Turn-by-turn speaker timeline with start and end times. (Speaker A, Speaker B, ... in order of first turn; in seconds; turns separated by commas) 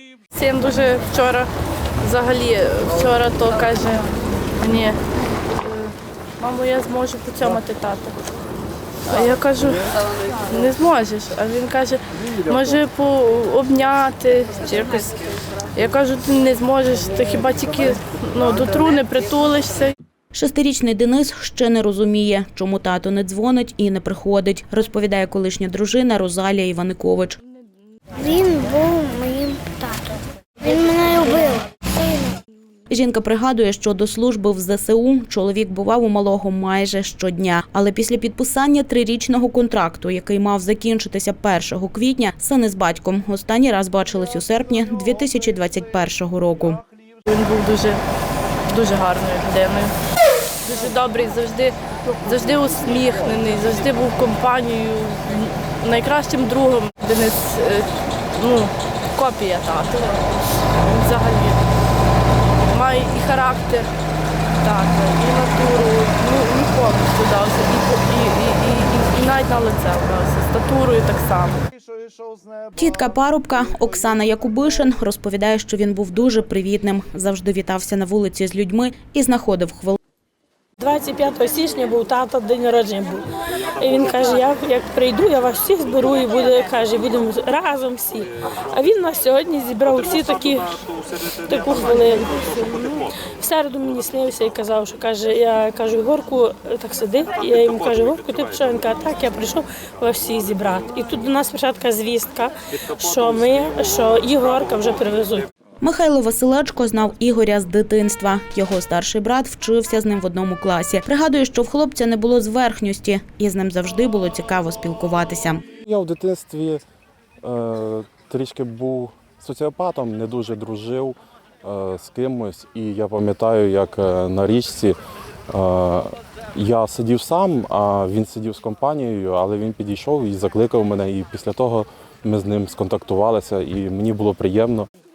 Speaker A: 0.3-1.5, Speaker A: 2.0-5.0, Speaker A: 5.5-8.2, Speaker A: 9.1-9.9, Speaker A: 10.4-15.2, Speaker A: 15.7-19.9, Speaker B: 20.3-27.4, Speaker C: 28.1-32.4, Speaker B: 32.9-46.8, Speaker A: 47.3-48.0, Speaker A: 48.7-49.9, Speaker A: 50.6-61.6, Speaker A: 62.6-63.9, Speaker A: 64.6-71.6, Speaker B: 72.8-80.0, Speaker D: 80.8-105.5, Speaker B: 105.8-115.6, Speaker E: 115.8-116.8, Speaker E: 117.4-125.0, Speaker E: 125.5-134.9